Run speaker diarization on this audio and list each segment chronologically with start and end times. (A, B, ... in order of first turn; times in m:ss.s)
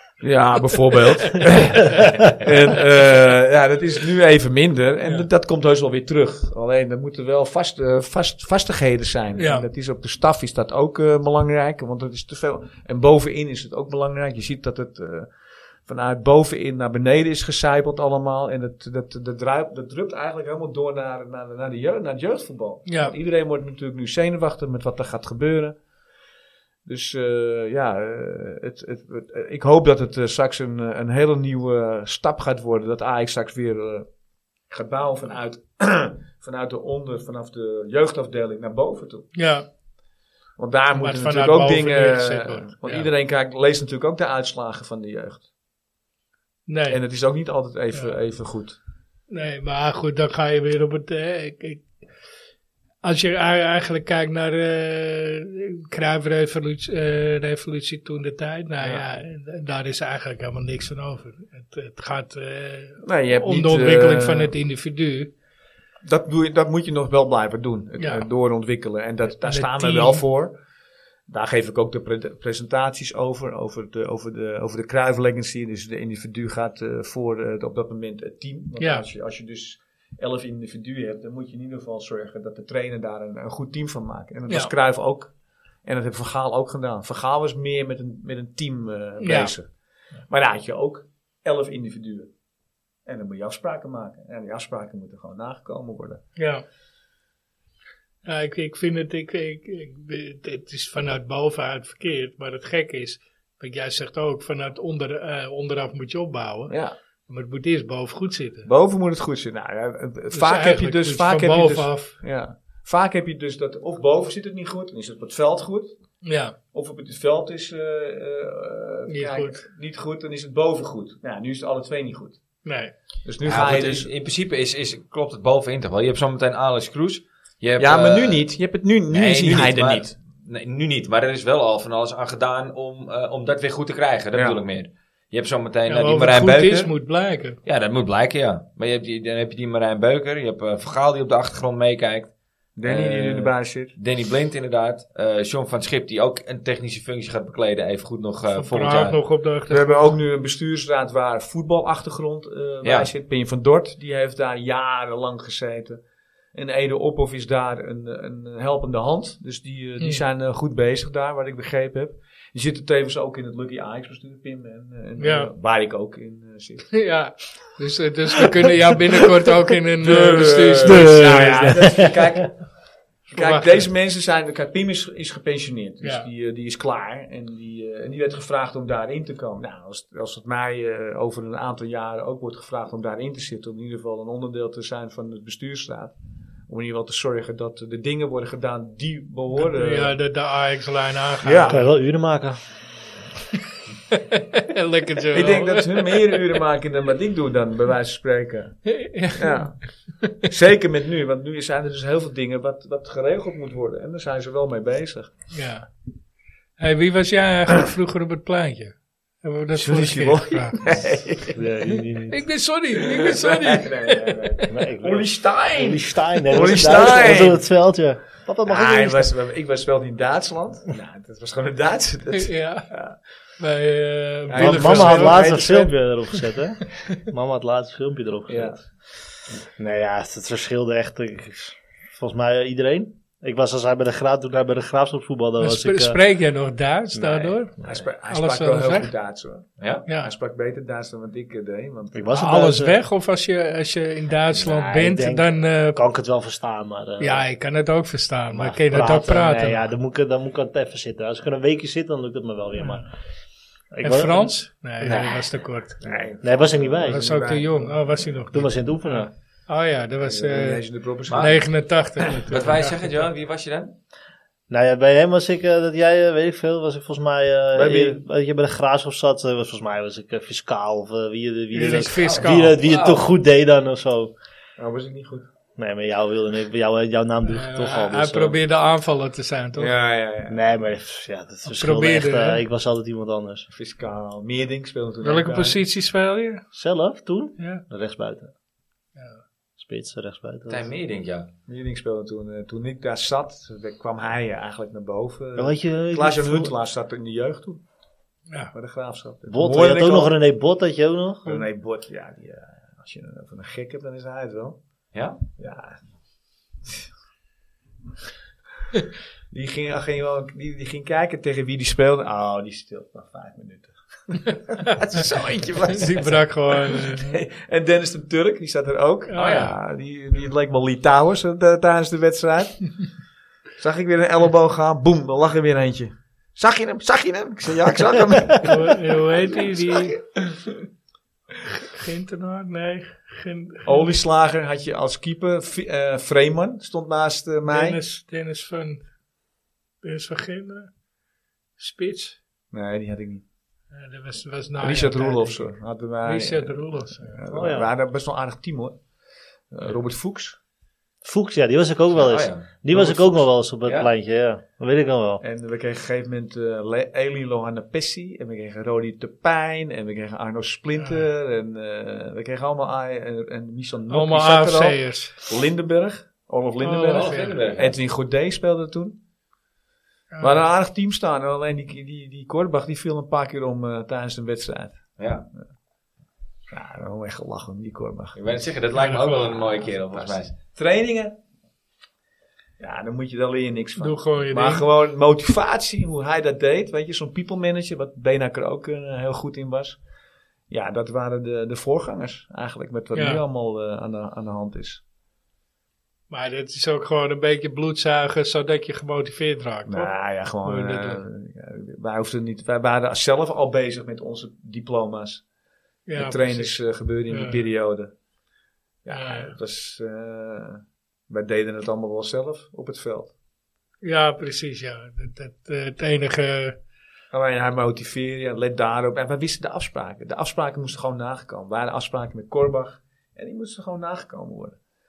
0:00.2-0:25.8 A
0:01.4-0:02.0 B
0:09.4-0:09.7 B
0:22.9-0:23.2 B
0:26.8-0:34.1 A
0:34.7-0:39.3 A
0:39.4-0:39.7 B
0:40.6-0:45.5 A
0:41.0-0:43.1 B
0:46.7-0:47.0 B
0:46.9-0:48.8 A
0:49.3-0:51.9 B
0:53.0-1:05.3 B
0:58.8-0:59.1 A
1:03.0-1:04.5 A
1:06.0-1:10.6 A
1:08.0-1:08.3 B
1:09.4-1:10.2 B
1:11.3-1:25.3 A
1:18.8-1:19.1 B
1:25.8-1:29.7 A
1:29.2-1:29.5 B
1:30.3-1:32.3 A
1:33.1-1:36.2 A
1:36.4-1:36.6 B
1:38.2-1:46.8 B
1:46.7-1:47.0 A
1:47.3-1:48.7 B
1:48.6-1:55.9 A
1:50.3-1:52.2 B
1:56.2-1:56.6 B
1:56.7-2:02.4 A
1:59.1-1:59.6 B
2:02.6-2:02.9 B
2:03.2-2:04.1 A
2:03.4-2:08.4 C
2:07.8-2:10.2 A
2:09.1-2:16.9 C
2:14.3-2:14.6 A
2:15.9-2:17.6 B
2:17.6-2:22.3 C
2:22.8-2:24.0 A
2:22.8-2:29.2 C
2:28.5-2:30.2 B
2:29.7-2:36.0 A
2:32.8-2:33.1 C
2:36.5-2:47.0 A
2:45.2-2:45.5 B
2:46.9-2:51.8 B
2:50.0-2:52.6 A
2:50.9-2:52.1 D
2:53.3-3:06.2 A
2:53.3-2:53.9 B
2:56.0-2:56.3 B
3:06.7-3:10.2 A
3:09.5-3:11.9 B
3:11.4-3:11.8 A
3:11.7-3:12.7 D
3:14.1-3:16.4 B
3:15.3-3:25.3 A
3:18.9-3:20.3 B
3:25.5-3:25.9 B
3:26.8-3:30.9 B
3:29.8-3:31.6 A
3:31.5-3:32.5 D
3:32.3-3:34.7 B
3:33.0-3:37.7 A
3:34.7-3:39.3 D
3:38.6-3:43.2 A
3:42.3-3:42.9 B
3:43.6-3:45.6 B
3:44.5-3:46.0 A
3:44.6-3:48.9 D
3:48.5-3:48.8 A
3:49.8-3:56.2 D
3:55.6-3:57.8 B
3:57.1-3:58.0 D
3:57.8-4:02.5 A
3:58.3-3:59.1 B
3:59.8-4:00.1 C
4:00.1-4:00.3 B
4:02.1-4:03.0 D
4:02.3-4:06.0 B
4:04.5-4:07.4 D
4:07.2-4:09.9 B
4:08.5-4:13.1 D
4:12.8-4:13.1 B
4:13.9-4:15.3 D
4:14.0-4:16.0 B
4:16.0-4:18.6 A
4:16.4-4:17.3 D
4:17.1-4:23.2 B
4:18.5-4:19.3 D
4:20.2-4:21.6 A
4:21.3-4:21.6 C
4:22.5-4:23.9 C
4:24.7-4:34.3 D
4:27.8-4:28.1 A
4:27.8-4:28.2 C
4:31.7-4:32.8 B
4:32.2-4:33.3 C
4:34.8-4:35.5 A
4:35.8-4:38.6 D
4:37.5-4:40.0 B
4:39.8-4:40.6 A
4:40.5-4:43.7 D
4:41.7-4:42.6 B
4:43.7-4:45.8 A
4:45.2-4:46.6 B
4:46.7-4:48.5 D
4:47.6-4:47.8 B
4:49.2-4:49.4 B
4:49.8-4:50.8 D
4:50.7-4:51.5 C
4:51.7-4:57.8 A
4:55.6-4:56.7 D
4:58.7-5:00.4 A
4:59.5-5:01.6 D
5:01.4-5:04.8 A
5:05.1-5:05.4 C
5:05.6-5:06.0 A
5:09.5-5:22.9 A
5:15.1-5:16.0 C
5:15.9-5:17.4 B
5:19.3-5:19.7 B
5:19.4-5:19.7 C
5:23.8-5:30.6 A
5:28.6-5:30.2 B
5:31.8-5:34.1 B
5:33.9-5:38.0 A
5:37.7-5:39.1 B
5:40.0-5:40.9 B
5:41.8-5:42.4 B
5:42.7-5:43.4 A
5:43.9-5:47.4 B
5:44.8-5:49.0 A
5:47.5-5:47.9 D
5:49.7-5:50.6 A
5:51.2-5:55.4 D
5:52.1-5:52.7 C
5:52.9-5:53.5 A
5:53.8-5:54.1 C
5:55.4-6:09.2 A
6:01.0-6:01.2 B
6:04.1-6:05.4 B
6:06.8-6:07.6 B
6:07.1-6:07.9 C
6:10.3-6:10.7 B
6:10.4-6:15.6 A
6:15.2-6:15.5 C
6:16.7-6:18.6 A
6:18.4-6:20.6 C
6:19.0-6:19.8 B
6:20.1-6:21.4 A
6:22.8-6:30.0 A
6:24.0-6:24.9 B
6:30.7-6:35.0 A
6:33.1-6:33.4 B
6:36.3-6:41.2 B
6:39.9-6:45.4 A
6:46.1-6:47.6 B
6:46.2-6:48.1 A
6:49.0-6:53.3 A
6:49.1-6:49.6 B
6:54.0-6:56.8 B
6:57.3-7:04.8 A